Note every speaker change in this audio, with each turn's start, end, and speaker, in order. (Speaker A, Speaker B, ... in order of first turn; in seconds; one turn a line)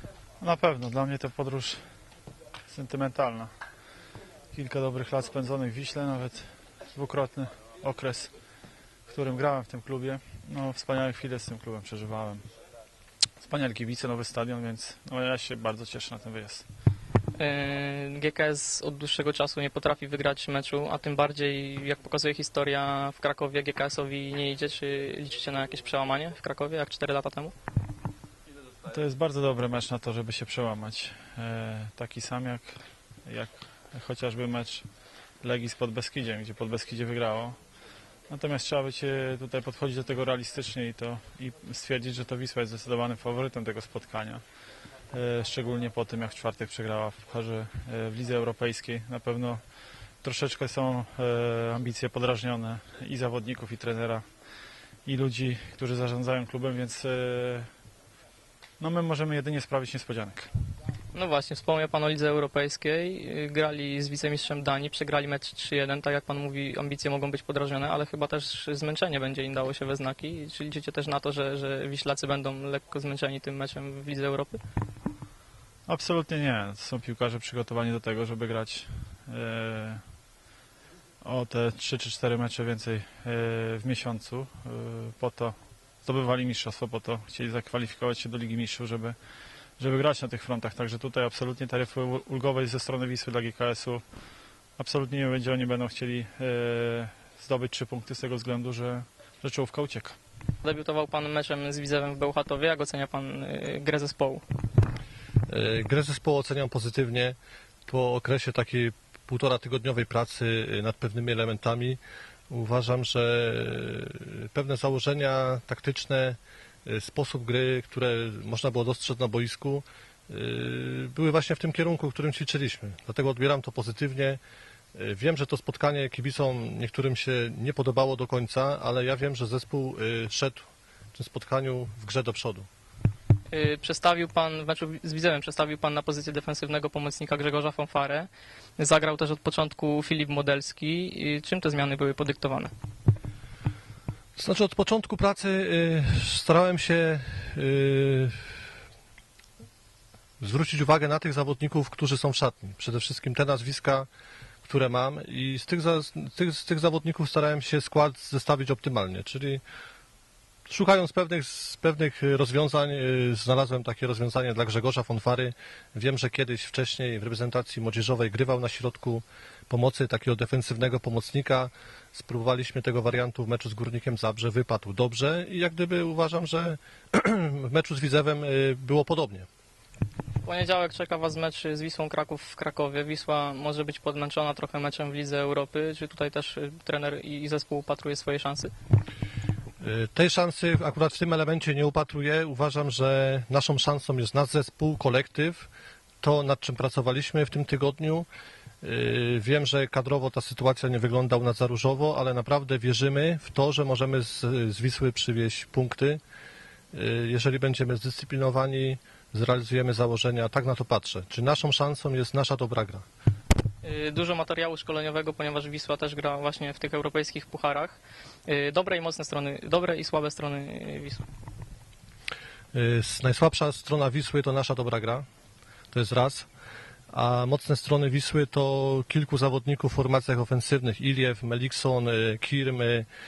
Speaker A: 0.4-1.8
Speaker A: 2.7-3.5
Speaker A: 4.5-8.3
Speaker A: 9.1-12.4
Speaker A: 13.4-16.7
Speaker B: 17.4-27.5
Speaker A: 28.9-34.9
Speaker A: 35.4-37.6
Speaker A: 38.3-44.4
Speaker A: 45.1-49.6
Speaker A: 50.2-54.2
Speaker A: 55.1-57.7
Speaker A: 58.8-60.5
Speaker B: 61.1-74.6
Speaker A: 75.9-80.0
Speaker A: 81.2-89.2
Speaker A: 89.8-94.0
Speaker A: 94.8-100.2
Speaker B: 100.6-104.4
Speaker C: 105.5-112.0
Speaker C: 112.5-124.4
Speaker C: 125.0-132.7
Speaker B: 133.5-142.7
Speaker C: 144.4-148.5
Speaker C: 150.4-154.1
Speaker C: 154.7-159.6
Speaker C: 160.7-179.5
Speaker B: 180.4-188.7
Speaker C: 189.8-195.7
Speaker C: 196.2-198.3
Speaker C: 198.8-206.2
Speaker C: 206.9-213.1
Speaker B: 213.8-221.2
Speaker C: 222.7-225.2
Speaker C: 225.9-226.5
Speaker C: 227.1-233.1